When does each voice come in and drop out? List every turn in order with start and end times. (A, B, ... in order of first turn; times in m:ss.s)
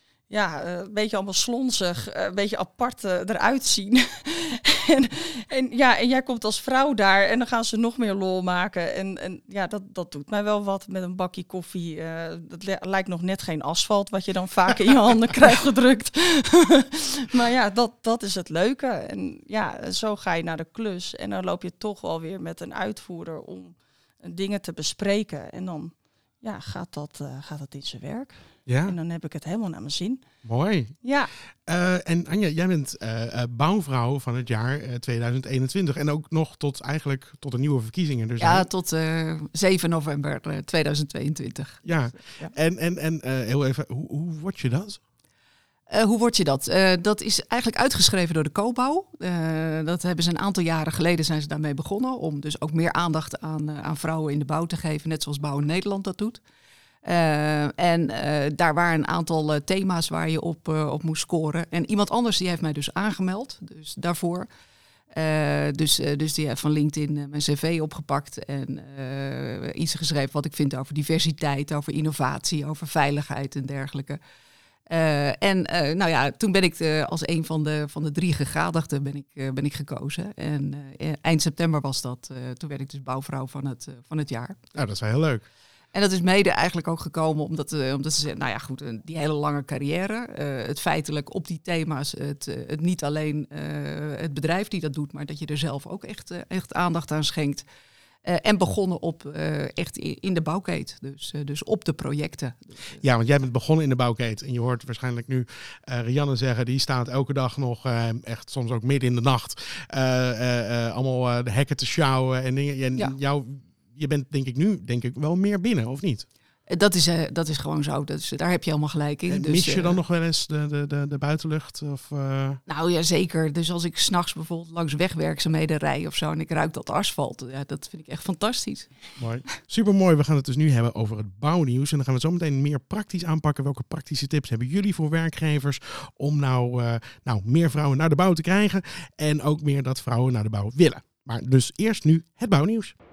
0:00.3-0:30.2 A
0:28.7-0:29.0 B
0:30.4-0:31.0 B
0:31.0-0:31.3 A
0:31.7-0:38.7 B
0:38.4-0:42.5 C
0:41.8-0:45.0 B
0:45.9-0:56.4 C
0:57.0-1:04.5 C
1:05.1-1:14.2 C
1:14.9-1:24.6 C
1:24.8-1:25.4 B
1:25.9-1:37.6 C
1:38.2-1:42.8 C
1:43.0-1:56.3 B
1:56.7-2:00.0 C
1:59.3-2:02.6 B
2:02.7-2:09.0 C
2:09.2-2:23.0 B